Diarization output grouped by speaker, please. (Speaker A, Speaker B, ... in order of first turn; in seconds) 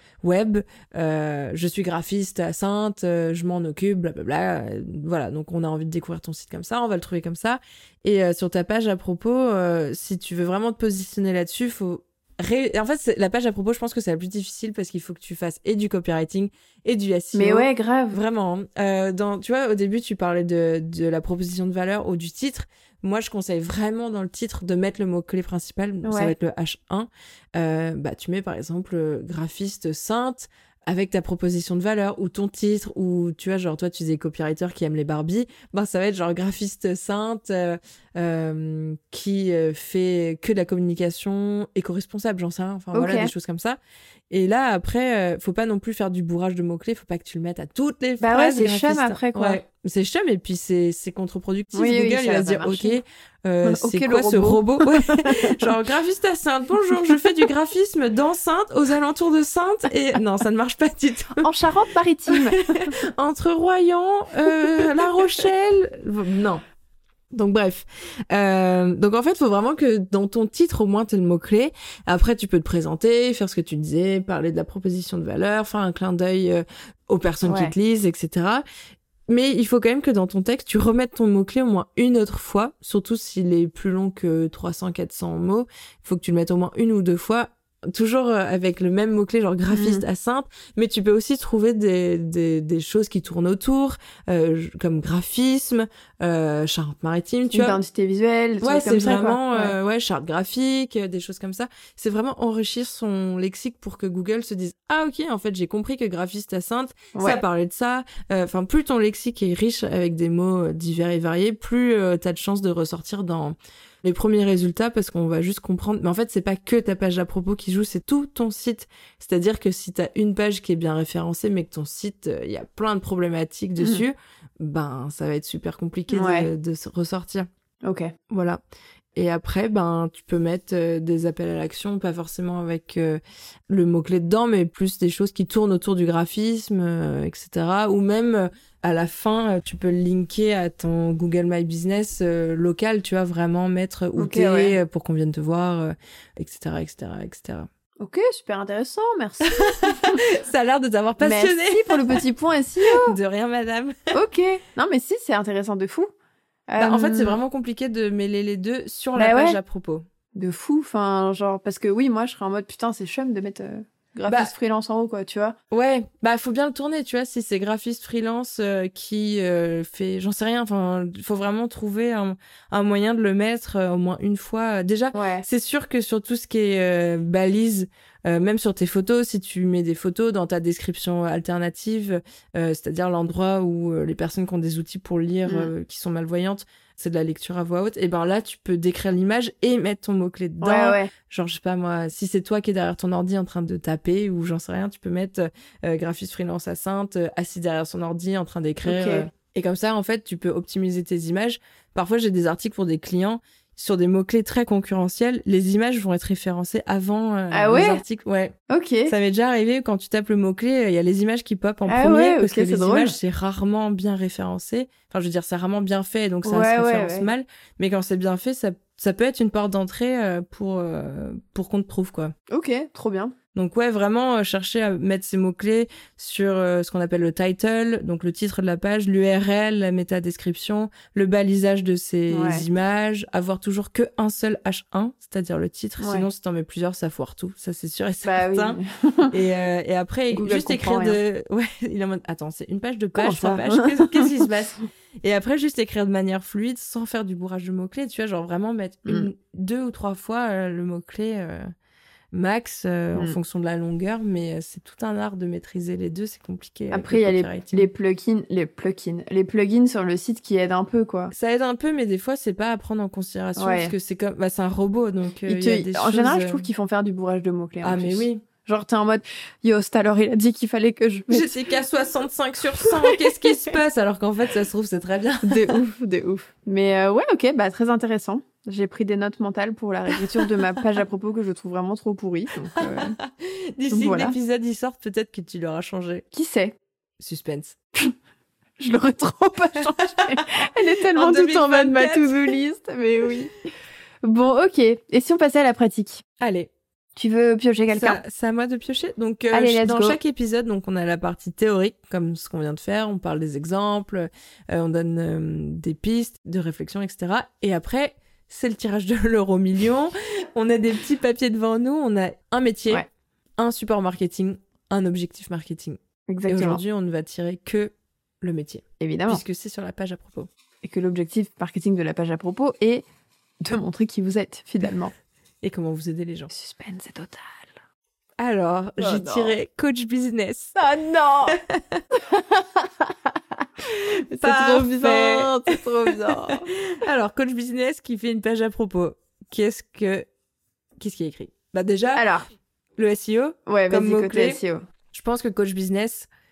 Speaker A: 0.2-43.8, 44.3-61.5, 62.3-66.6, 67.3-78.6, 79.3-97.8, 98.6-127.5, 128.3-128.6, 129.2-147.7, 149.6-152.2, 152.8-154.1, 156.8-160.0, 164.3-164.5, 165.7-208.5, 209.1-222.3, 223.5-238.8, 239.3-251.7, 252.3-257.9, 261.3-266.7, 267.8-268.4, 271.3-275.8, 282.8-286.2, 287.2-287.8, 291.1-292.6, 296.4-296.7, 297.9-313.1, 313.6-320.5, 325.6-326.5, 328.4-330.7, 331.5-332.0, 334.4-340.2, 341.0-342.2, 343.0-344.6, 345.1-346.3
Speaker B: 17.3-18.2, 26.0-26.3, 42.9-43.3, 48.2-49.6, 51.7-53.0, 53.6-55.6, 57.0-57.3, 61.4-62.9, 77.4-77.7, 89.7-90.0, 97.5-99.7, 107.1-107.4, 123.8-124.0, 126.1-126.5, 127.8-128.1, 144.2-144.8, 148.0-150.2, 151.2-153.2, 154.1-156.1, 156.7-157.4, 159.2-159.6, 160.3-165.6, 175.1-175.4, 185.4-185.7, 190.6-191.1, 198.8-199.3, 207.5-208.0, 208.7-209.1, 211.9-213.2, 216.4-217.3, 222.5-223.3, 232.3-232.6, 236.0-236.3, 238.2-239.3, 240.3-241.2, 243.2-244.4, 256.9-261.3, 263.6-263.9, 265.5-271.6, 272.8-273.7, 275.4-283.2, 283.9-284.4, 286.3-286.8, 288.8-293.5, 294.2-296.2, 297.1-298.2, 299.5-300.2, 316.3-316.8, 319.0-319.4, 320.8-323.0, 323.6-325.1, 326.5-327.7, 329.0-329.6, 330.8-331.6, 332.1-336.7, 342.1-342.4, 343.7-344.8